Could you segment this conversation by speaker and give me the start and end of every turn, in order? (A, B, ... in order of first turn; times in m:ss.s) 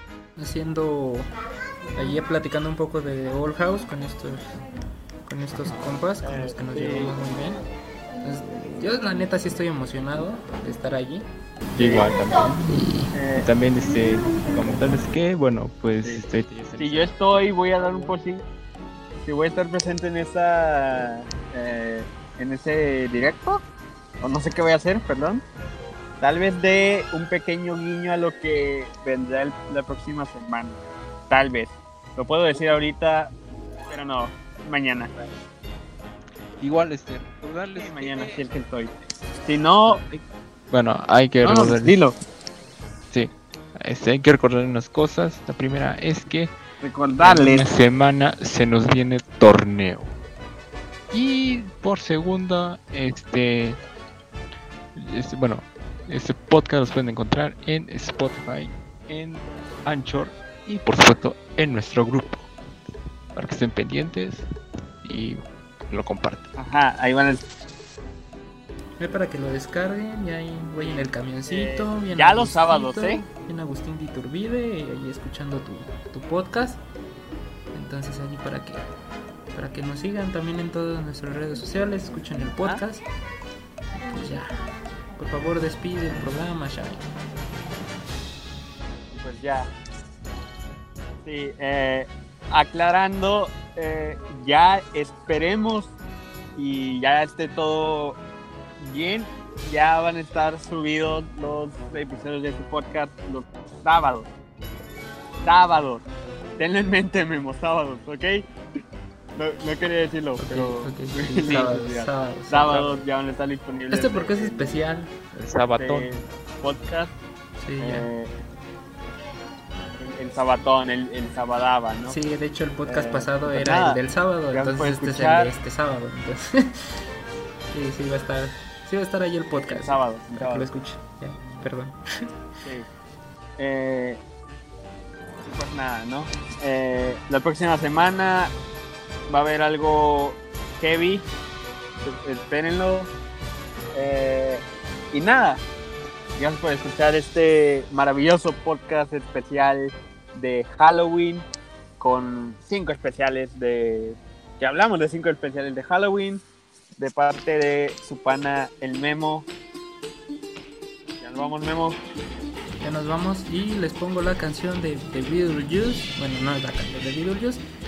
0:00.4-0:01.3 A
0:01.9-0:04.6 A
0:05.2-0:07.6 A
0:06.2-0:07.2 B
0:08.2-0:11.3 A
0:11.7-0:18.2 C
0:11.8-0:12.1 B
0:13.1-0:13.5 B
0:16.8-0:18.4 B
0:19.2-0:23.6 B
0:24.2-0:25.4 B
0:26.2-0:33.3 B
0:33.9-0:35.1 B
0:36.6-0:38.4 C
0:37.7-0:38.9 B
0:39.4-0:40.0 B
0:39.8-0:42.0 C
0:41.4-0:42.2 B
0:43.1-0:46.5 C
0:46.8-0:47.7 B
0:47.2-0:50.1 C
0:51.1-0:53.8 C
0:54.9-1:02.5 C
1:03.3-1:04.5 C
1:05.0-1:06.5 C
1:06.6-1:07.4 B
1:09.0-1:16.8 A
1:10.8-1:13.2 B
1:17.7-1:18.9 A
1:19.5-1:23.0 A
1:22.6-1:22.8 B
1:23.9-1:24.6 A
1:25.2-1:27.0 A
1:29.1-1:29.7 B
1:31.2-1:35.9 B
1:36.6-1:38.2 B
1:38.8-1:44.3 B
1:45.4-1:46.0 B
1:46.6-1:48.5 B
1:49.3-1:54.8 B
1:50.4-1:52.9 A
1:51.5-1:51.7 C
1:53.9-1:55.1 A
1:55.3-1:56.2 C
1:55.7-1:57.1 B
1:57.6-1:58.1 A
1:57.8-1:58.3 B
2:00.0-2:02.2 B
2:02.1-2:07.0 A
2:02.9-2:05.5 B
2:07.7-2:12.2 A
2:09.6-2:10.7 B
2:13.6-2:14.2 B
2:15.4-2:18.5 B
2:19.3-2:21.2 B
2:22.0-2:23.1 B
2:23.9-2:25.6 B
2:26.4-2:31.4 B
2:32.0-2:36.4 B
2:37.0-2:39.4 B
2:41.2-2:42.0 B
2:42.8-2:47.6 A